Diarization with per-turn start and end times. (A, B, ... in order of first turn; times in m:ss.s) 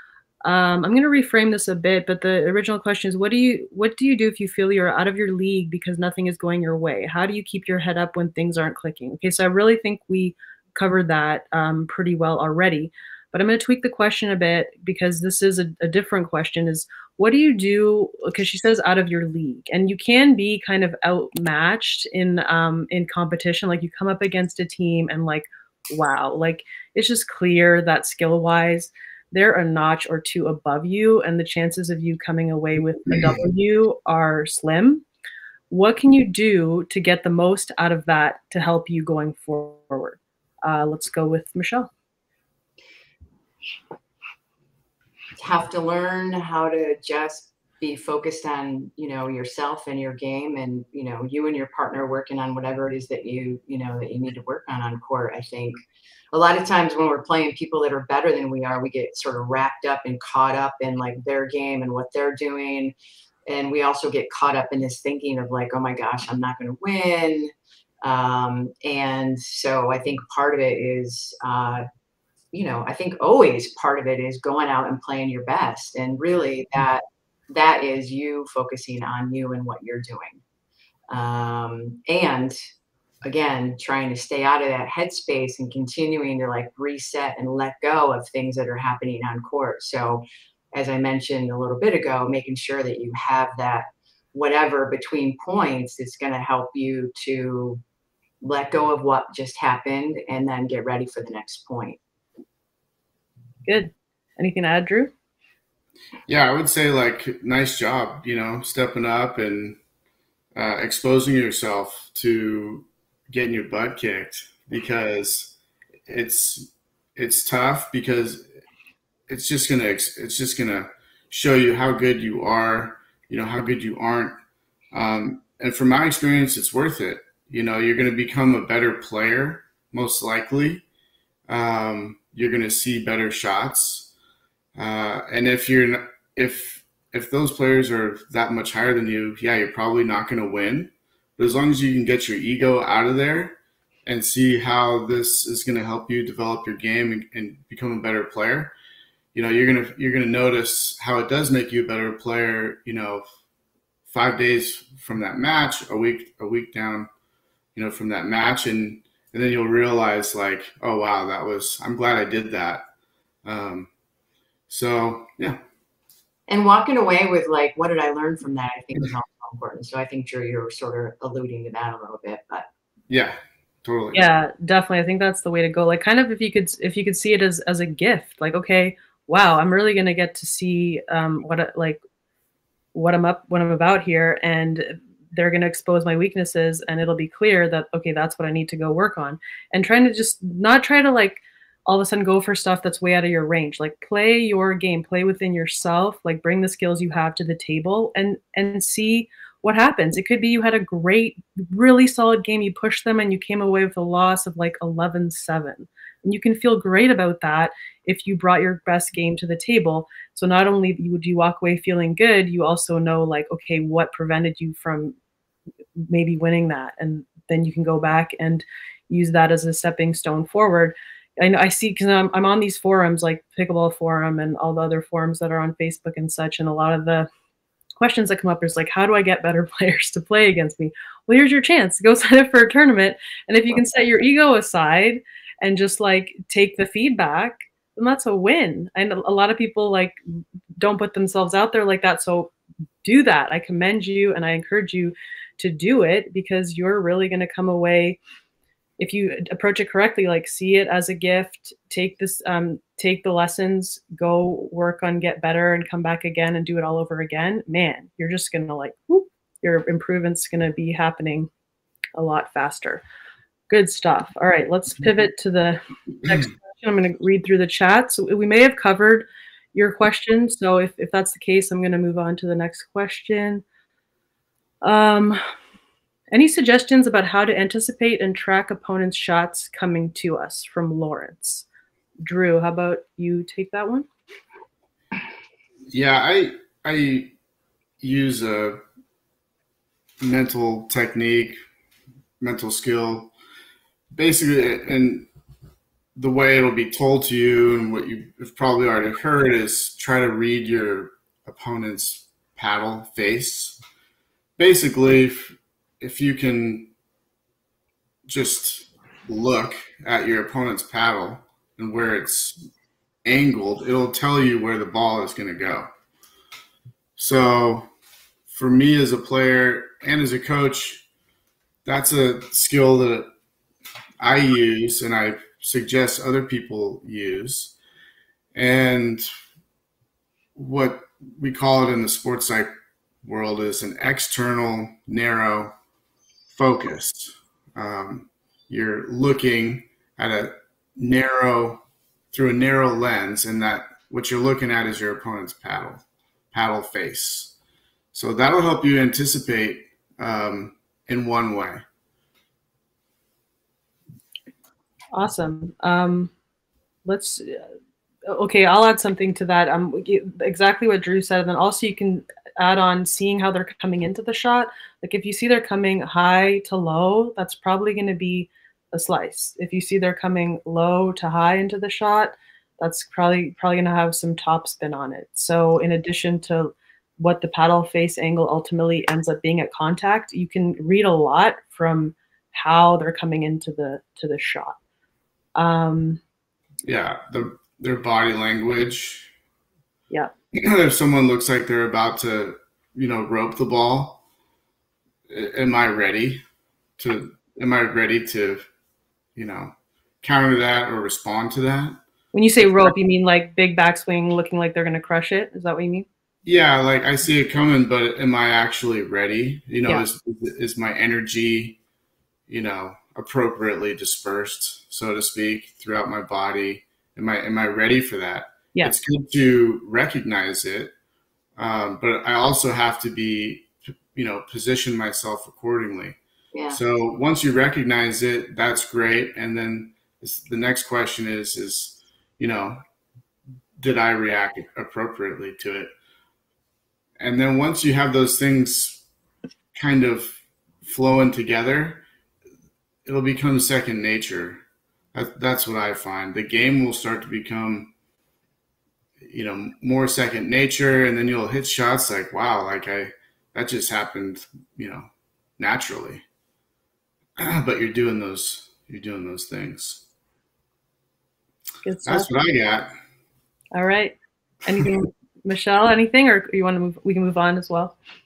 0:00.4-0:35.0 A
0:35.7-0:41.9 A
0:45.4-0:55.8 B
0:56.3-1:02.9 B
1:03.5-1:07.5 B
1:08.0-1:11.8 B
1:12.5-1:20.4 B
1:21.1-1:22.6 B
1:23.2-1:37.8 B
1:38.4-1:42.0 B
1:43.6-1:45.1 A
1:46.3-1:49.8 C
1:50.6-1:55.5 C
1:56.1-1:58.5 C
1:59.3-2:04.4 C
2:04.9-2:10.8 C
2:11.5-2:14.1 C
2:14.8-2:28.7 C
2:29.3-2:33.2 C
2:34.1-2:37.1 C
2:37.7-2:42.8 C
2:43.4-2:43.9 C
2:44.7-2:45.6 C
2:46.5-2:52.7 B
2:53.1-2:54.3 C
2:54.1-3:02.0 A
3:02.9-3:35.1 A
3:36.1-3:47.3 A
3:48.0-4:00.1 A
4:00.8-4:02.5 A
4:03.0-4:08.2 A
4:09.0-4:21.5 A
4:22.2-4:23.0 A
4:23.7-4:33.6 A
4:34.8-4:35.4 A
4:36.3-4:41.6 A
4:42.2-4:44.0 A
4:45.9-4:47.3 C
4:48.0-4:48.8 C
4:50.2-4:51.6 C
4:52.4-4:53.3 C
4:54.1-4:55.3 C
4:56.2-5:03.8 C
5:04.6-5:06.9 C
5:08.3-5:12.6 C
5:13.2-5:15.9 C
5:17.2-5:17.9 C
5:18.5-5:21.0 C
5:21.8-5:23.3 C
5:24.2-5:27.7 C
5:28.5-5:29.2 C
5:30.6-5:32.7 C
5:33.2-5:35.7 C
5:36.5-5:47.5 C
5:48.1-5:51.8 C
5:55.1-5:56.3 A
5:57.0-5:57.6 A
5:58.3-6:24.8 A
6:25.6-6:26.2 A
6:26.8-6:29.3 C
6:30.5-6:34.2 C
6:35.3-6:36.4 C
6:37.0-6:38.7 C
6:39.4-6:42.0 C
6:42.3-6:46.1 A
6:42.6-6:42.9 C
6:46.4-6:51.8 C
6:52.5-7:00.9 C
7:01.6-7:06.2 C
7:06.5-7:06.8 B
7:06.7-7:12.8 C
7:13.8-7:15.9 C
7:17.2-7:19.0 C
7:19.7-7:22.0 C
7:23.0-7:24.6 C
7:25.1-7:27.9 C
7:29.2-7:35.0 C
7:35.6-7:36.2 C
7:37.4-7:40.0 C
7:41.8-7:42.3 A
7:42.0-7:42.9 C
7:43.7-7:48.0 A